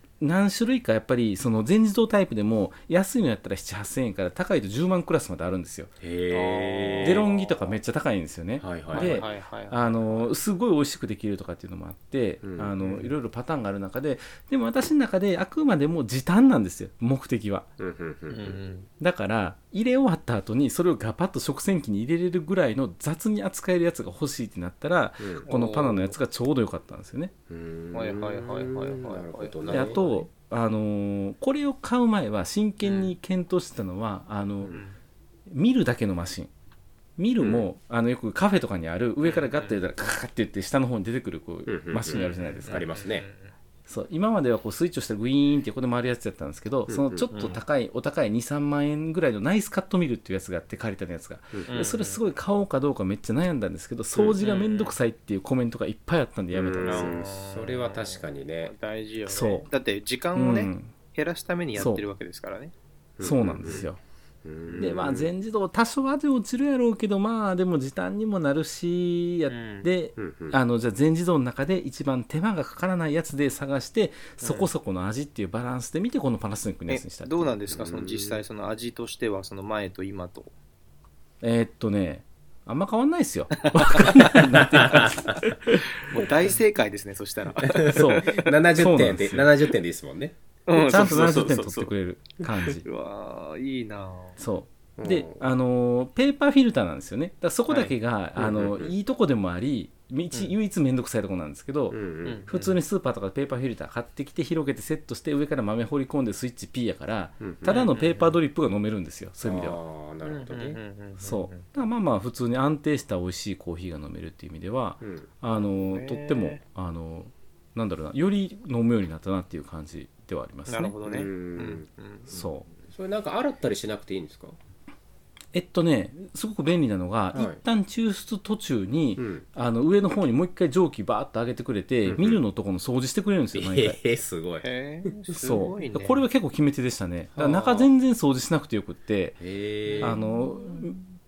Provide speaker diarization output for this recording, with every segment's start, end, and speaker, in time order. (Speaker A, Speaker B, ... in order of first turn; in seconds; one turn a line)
Speaker A: 0.2-5.9
Speaker B: 6.0-7.2
Speaker C: 6.3-7.4
Speaker A: 7.0-17.7
Speaker B: 8.6-9.2
Speaker C: 8.9-10.3
Speaker B: 12.4-13.1
Speaker B: 17.8-18.6
Speaker C: 18.3-18.9
Speaker A: 19.0-27.3
Speaker B: 25.2-25.5
Speaker C: 25.4-26.1
Speaker B: 27.5-30.0
Speaker C: 27.9-30.3
Speaker A: 29.7-34.8
Speaker C: 32.8-33.1
Speaker C: 34.7-35.0
Speaker A: 35.5-36.5
Speaker A: 37.2-42.9
Speaker B: 37.4-37.6
Speaker C: 39.2-39.9
Speaker B: 41.7-43.3
Speaker C: 42.1-43.5
Speaker A: 43.9-57.1
Speaker B: 46.9-47.3
Speaker C: 47.3-47.6
Speaker C: 51.7-52.2
Speaker B: 54.1-54.4
Speaker C: 54.4-55.0
Speaker B: 56.5-58.7
Speaker C: 56.8-62.7
Speaker A: 59.2-59.7
Speaker A: 60.4-60.9
Speaker A: 61.8-62.0
Speaker B: 63.2-63.9
Speaker A: 63.2-64.0
Speaker B: 64.4-65.3
Speaker C: 64.7-64.9
Speaker A: 64.8-77.5
Speaker C: 69.5-69.9
Speaker B: 70.2-70.6
Speaker C: 74.4-74.7
Speaker C: 76.9-80.5
Speaker B: 77.7-78.4
Speaker A: 81.4-85.8
Speaker C: 83.6-84.4
Speaker B: 84.8-85.1
Speaker C: 86.0-88.5
Speaker B: 87.6-90.4
Speaker A: 87.9-89.5
Speaker C: 90.7-91.9
Speaker A: 90.7-92.8
Speaker C: 92.8-94.4
Speaker A: 94.4-109.8
Speaker B: 95.0-95.5
Speaker C: 97.7-98.0
Speaker B: 98.4-98.9
Speaker B: 101.9-102.4
Speaker C: 102.2-102.8
Speaker B: 107.4-107.9
Speaker C: 107.6-108.4
Speaker B: 109.4-110.8
Speaker C: 110.2-111.7
Speaker A: 111.2-121.0
Speaker B: 115.0-115.3
Speaker C: 115.5-116.6
Speaker C: 120.7-122.3
Speaker B: 121.0-124.6
Speaker A: 122.3-122.7
Speaker A: 125.5-134.0
Speaker B: 127.3-127.6
Speaker B: 129.2-129.5
Speaker B: 132.0-132.4
Speaker B: 133.5-135.6
Speaker C: 134.6-136.3
Speaker A: 135.3-139.4
Speaker B: 137.3-137.9
Speaker B: 139.4-140.1
Speaker C: 139.8-141.0
Speaker A: 140.0-141.0